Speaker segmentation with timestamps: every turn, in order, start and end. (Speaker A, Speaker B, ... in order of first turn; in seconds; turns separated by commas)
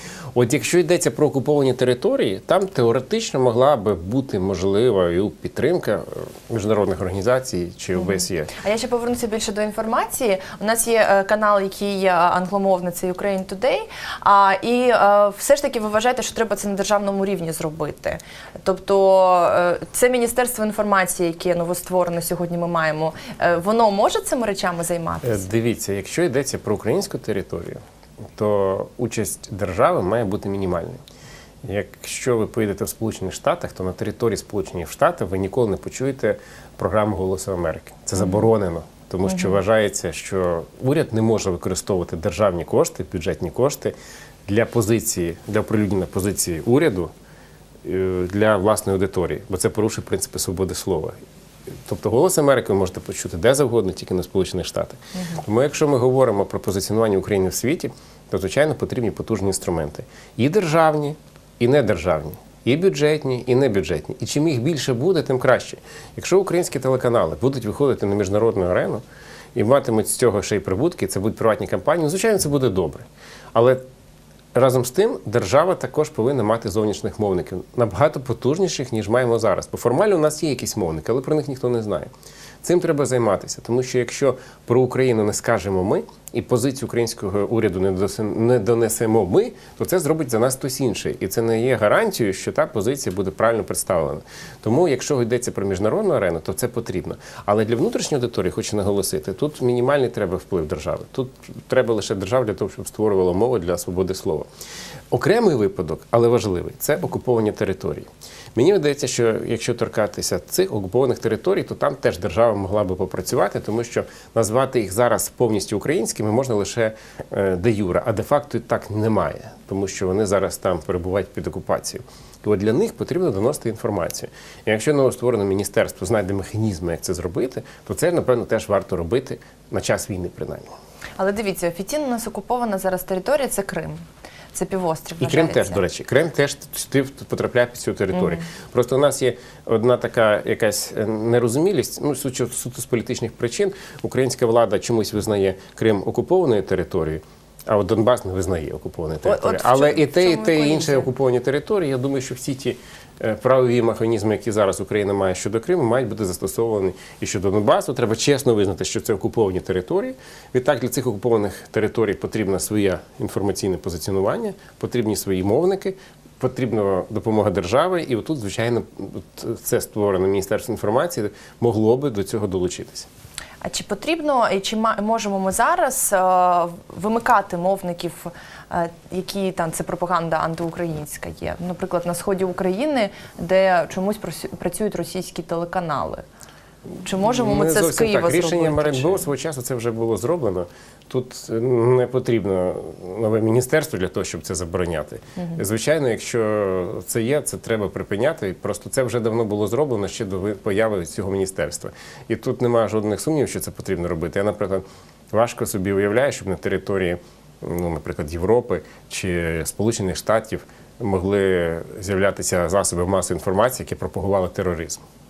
Speaker A: 0.3-8.5, Speaker B: 8.0-25.4, Speaker A: 25.2-27.8, Speaker A: 28.3-31.0, Speaker A: 31.6-43.9, Speaker B: 39.2-39.6, Speaker A: 44.5-47.1, Speaker A: 47.8-51.1, Speaker A: 51.9-69.0, Speaker B: 55.1-55.4, Speaker A: 69.5-73.8, Speaker A: 74.5-82.1, Speaker A: 82.6-104.5, Speaker A: 105.1-130.7, Speaker B: 131.2-135.8, Speaker A: 135.2-173.1, Speaker B: 149.2-151.1, Speaker B: 173.6-186.2, Speaker B: 187.0-189.2, Speaker A: 187.2-215.0